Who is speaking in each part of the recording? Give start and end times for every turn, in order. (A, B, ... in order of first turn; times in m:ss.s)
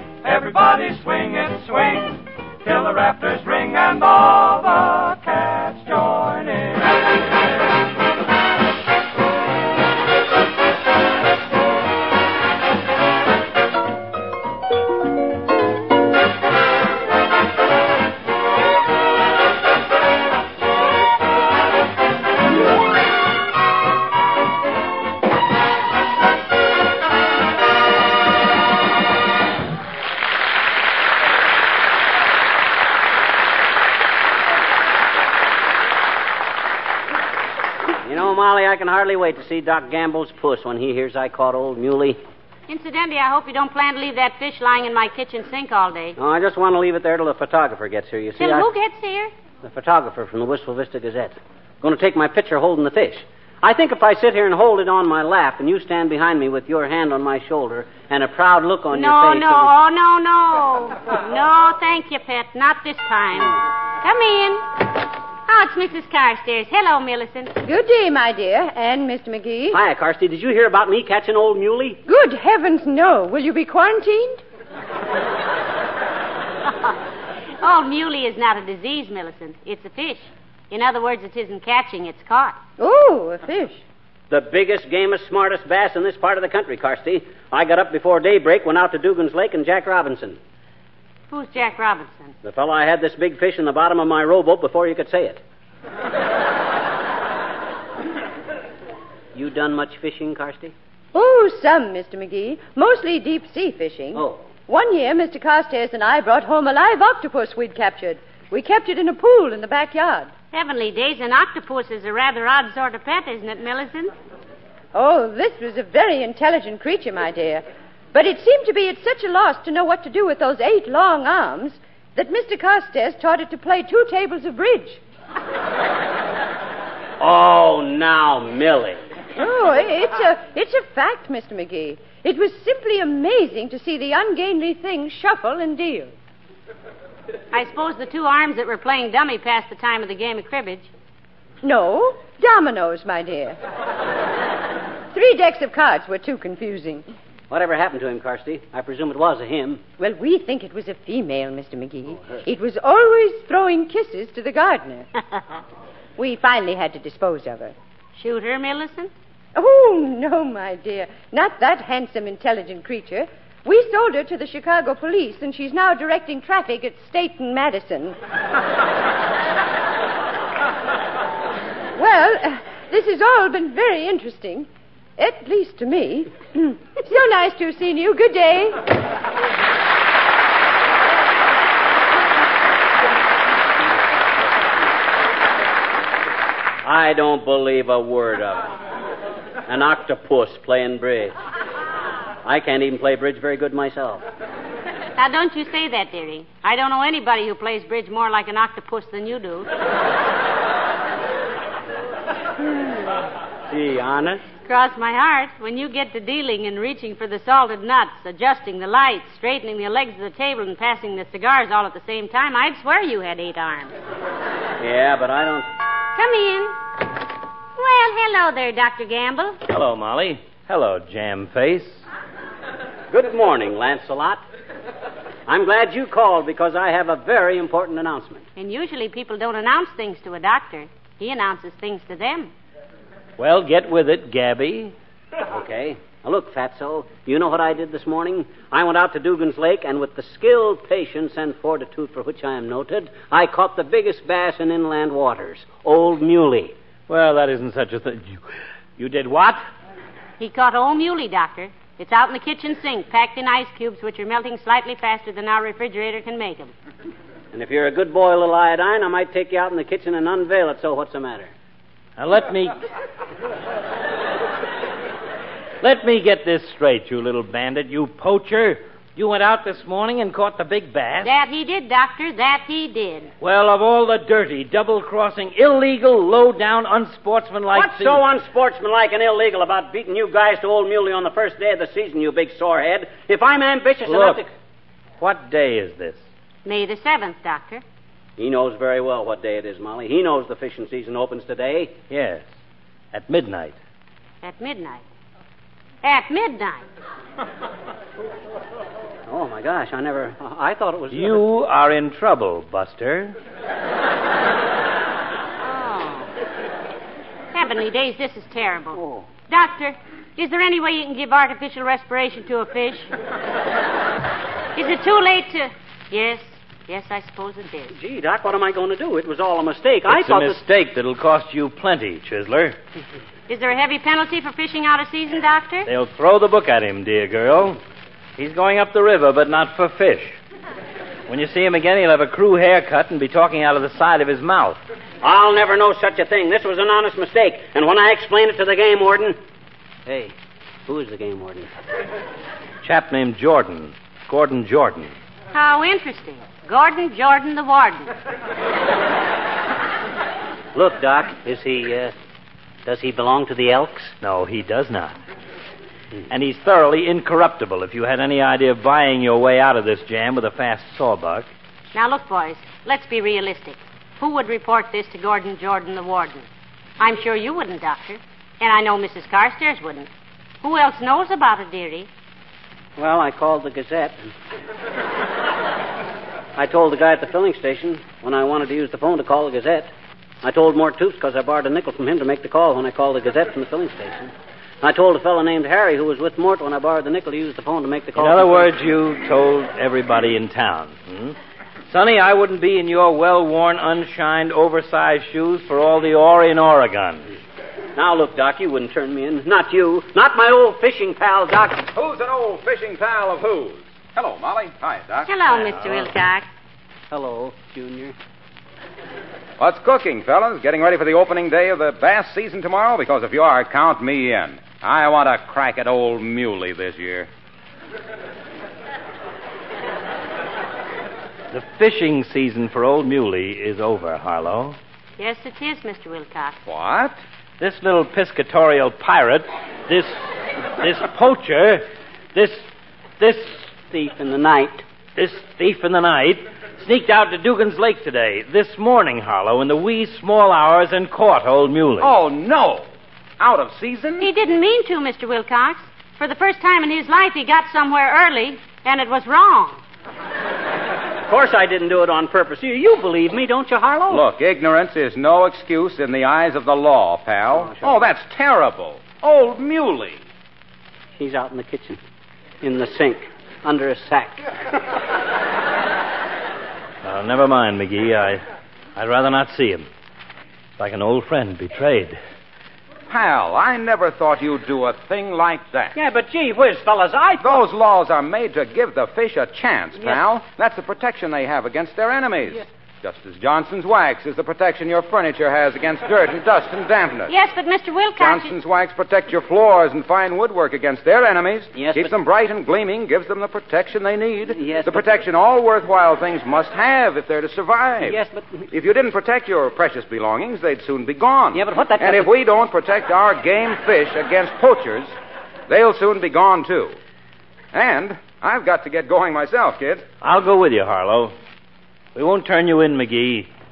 0:00.2-0:07.0 A
0:38.0-0:42.2 B
0:42.7-0:46.2 C
0:46.2-0:48.7 B
0:48.4-0:49.3 C
0:49.6-0:59.7 B
0:58.9-1:04.6 C
1:05.5-1:07.5 C
1:07.6-1:09.8 D
1:09.7-1:12.0 B
1:12.0-1:14.4 D
1:17.6-1:22.6 C
1:22.8-1:23.8 D
1:24.3-1:30.4 B
1:31.3-1:32.3 C
1:32.4-1:35.4 B
1:39.3-1:40.7 B
1:41.1-1:50.3 D
1:44.1-1:44.5 B
1:50.5-1:54.1 C
1:54.9-2:05.0 D
2:07.2-2:09.0 B
2:09.4-2:16.1 D
2:17.5-2:20.9 C
2:21.6-2:23.6 D
2:25.1-2:27.0 D
2:27.5-2:29.8 B
2:30.0-2:35.1 D
2:36.2-2:37.7 D
2:38.2-2:39.1 C
2:39.5-2:48.2 D
2:52.0-2:58.8 D
3:03.8-3:04.8 B
3:06.8-3:08.7 B
3:09.6-3:11.4 B
3:12.4-3:14.2 B
3:15.2-3:19.7 C
3:23.7-3:24.4 B
3:24.6-3:33.9 C
3:34.8-3:35.7 B
3:36.1-3:36.8 C
3:37.8-3:39.6 C
3:39.7-3:42.0 E
3:43.1-3:44.4 B
3:45.5-3:48.4 B
3:48.6-3:52.5 C
3:53.4-3:54.9 E
3:55.5-4:06.8 B
4:07.1-4:08.4 E
4:09.0-4:09.6 E
4:10.4-4:16.7 C
4:17.5-4:21.5 B
4:22.2-4:22.8 E
4:25.8-4:31.3 E
4:31.2-4:33.3 C
4:33.4-4:38.2 E
4:37.7-4:44.5 B
4:44.0-4:44.4 E
4:45.2-4:46.2 E
4:46.6-4:47.8 C
4:48.4-4:52.0 B
4:52.1-4:52.4 E
4:53.1-4:53.8 E
4:54.4-4:55.0 C
4:56.0-4:56.8 C
4:59.3-5:01.4 B
5:01.1-5:03.4 E
5:05.6-5:06.3 C
5:07.5-5:13.1 C
5:09.0-5:09.3 B
5:14.7-5:18.0 C
5:17.9-5:20.6 B
5:20.1-5:22.8 E
5:23.5-5:25.9 C
5:25.9-5:27.8 E
5:28.4-5:30.4 E
5:31.3-5:34.8 E
5:35.2-5:39.4 B
5:40.0-5:41.7 B
5:42.8-5:45.1 E
5:45.5-5:48.1 C
5:50.7-5:52.1 B
5:52.8-5:54.1 B
5:54.2-5:55.2 E
5:56.3-6:01.5 E
6:01.9-6:06.5 C
6:07.0-6:10.1 C
6:10.6-6:12.1 C
6:13.0-6:14.3 B
6:16.6-6:19.9 B
6:20.4-6:28.7 B
6:28.2-6:31.4 E
6:31.9-6:37.3 E
6:38.0-6:41.8 B
6:41.9-6:45.3 F
6:45.2-6:46.5 C
6:47.1-6:48.1 B
6:49.6-6:57.3 F
7:01.5-7:04.8 E
7:05.2-7:06.6 C
7:06.7-7:07.2 F
7:07.6-7:10.1 E
7:10.8-7:12.6 E
7:13.2-7:13.7 E
7:13.9-7:14.8 B
7:15.2-7:22.1 E
7:22.0-7:22.9 F
7:23.4-7:24.3 F
7:24.2-7:29.8 C
7:31.2-7:34.2 B
7:34.1-7:40.2 F
7:37.6-7:38.0 B
7:41.2-7:42.0 B
7:42.6-7:44.4 B
7:47.0-7:48.4 E
7:49.0-7:49.9 E
7:50.8-7:52.2 E
7:53.1-7:56.0 F
7:56.0-7:57.6 B
7:57.4-8:07.3 F
8:07.3-8:08.5 C
8:08.2-8:18.2 F
8:11.7-8:12.1 B
8:14.5-8:15.1 B
8:18.0-8:18.6 B
8:18.7-8:25.1 F
8:21.5-8:22.3 B
8:25.7-8:27.0 F
8:27.7-8:30.0 F
8:30.2-8:31.3 E
8:32.1-8:33.5 E